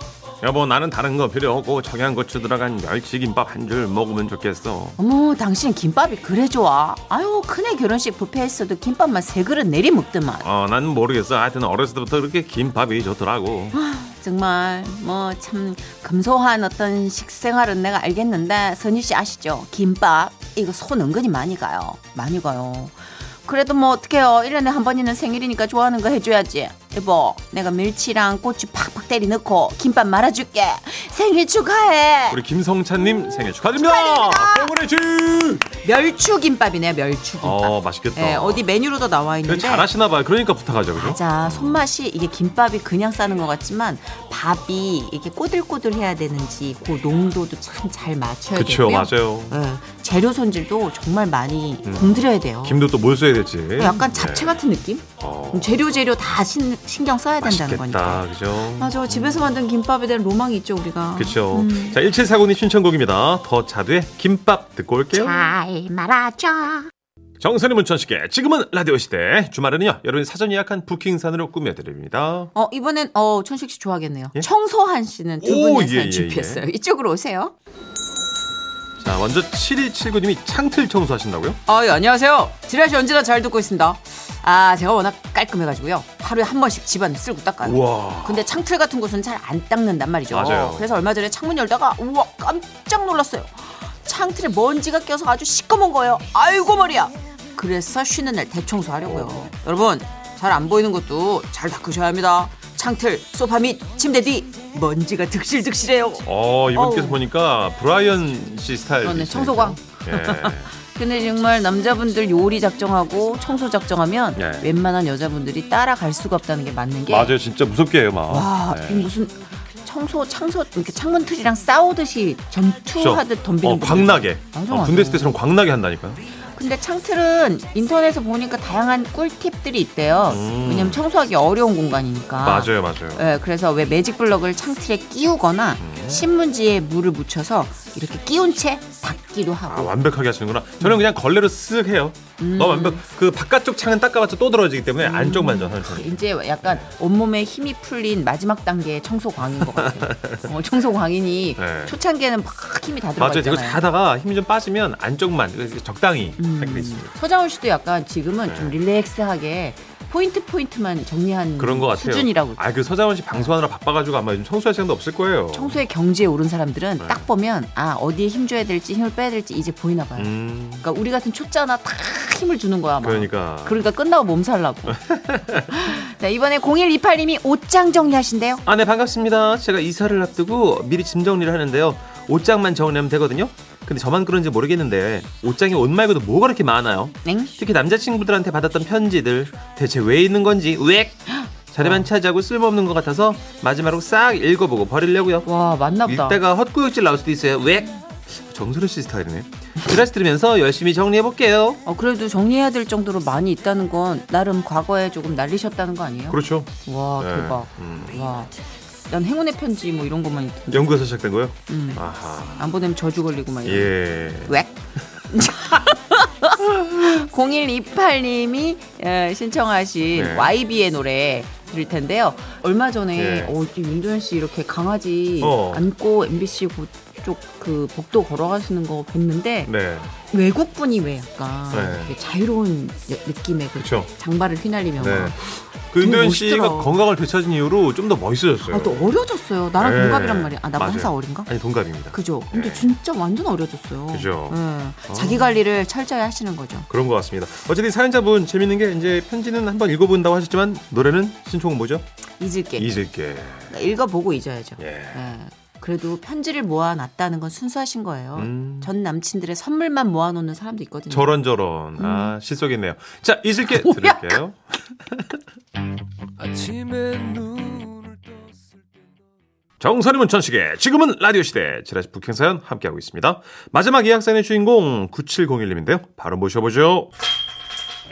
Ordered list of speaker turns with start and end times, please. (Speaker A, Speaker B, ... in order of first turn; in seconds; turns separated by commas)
Speaker A: 0.4-5.0, Speaker B: 5.0-10.4, Speaker A: 10.4-13.8, Speaker B: 13.7-32.4, Speaker A: 32.3-35.7, Speaker B: 33.2-34.7, Speaker B: 35.8-39.9, Speaker A: 37.4-38.7, Speaker A: 39.4-41.9, Speaker B: 40.9-52.8, Speaker A: 48.5-49.6, Speaker A: 51.9-54.6, Speaker B: 53.8-62.0, Speaker A: 55.2-55.8, Speaker A: 57.4-59.5, Speaker A: 61.2-65.4, Speaker B: 65.1-66.9, Speaker A: 67.4-72.5, Speaker B: 72.5-77.5, Speaker A: 75.4-76.6, Speaker A: 79.0-81.6, Speaker B: 81.7-107.2, Speaker A: 87.6-88.5, Speaker A: 90.3-90.9, Speaker A: 99.0-99.5, Speaker A: 106.2-110.7, Speaker B: 109.0-117.3, Speaker A: 114.4-114.7, Speaker A: 117.1-119.1, Speaker B: 118.3-125.4, Speaker A: 123.0-126.2, Speaker B: 126.5-140.0, Speaker A: 130.3-131.0, Speaker A: 132.4-133.3, Speaker A: 135.8-136.3, Speaker A: 139.7-146.9, Speaker B: 142.4-143.1, Speaker B: 145.0-153.8, Speaker A: 149.6-150.4, Speaker A: 151.6-152.0, Speaker A: 153.2-157.1, Speaker B: 156.4-162.6, Speaker A: 158.5-158.8, Speaker A: 161.6-165.8, Speaker B: 165.5-175.0, Speaker A: 167.0-167.2, Speaker A: 170.2-170.8, Speaker A: 173.0-173.8, Speaker A: 174.9-176.0, Speaker B: 175.7-178.6, Speaker A: 178.7-195.5, Speaker B: 187.2-187.5, Speaker B: 191.4-192.1, Speaker B: 195.4-196.4, Speaker A: 196.0-201.8, Speaker B: 201.8-208.5, Speaker A: 206.3-208.2, Speaker B: 209.1-211.0, Speaker A: 210.7-212.8, Speaker B: 211.7-229.7, Speaker A: 213.7-214.6, Speaker A: 220.1-220.5, Speaker A: 223.1-223.5, Speaker A: 225.4-225.8, Speaker A: 229.7-230.2, Speaker B: 230.3-235.4, Speaker A: 231.7-232.1, Speaker A: 233.8-234.1, Speaker A: 235.0-239.1, Speaker B: 236.0-236.9, Speaker B: 238.7-241.5, Speaker A: 239.8-242.9, Speaker B: 242.1-246.9, Speaker A: 244.1-245.5, Speaker A: 246.9-252.1, Speaker B: 252.4-252.9, Speaker A: 252.8-253.8, Speaker B: 253.7-261.4, Speaker A: 254.8-255.3, Speaker A: 258.3-258.9, Speaker A: 261.1-265.4, Speaker B: 261.9-262.3, Speaker B: 263.7-264.4, Speaker C: 266.4-269.0, Speaker A: 269.8-277.1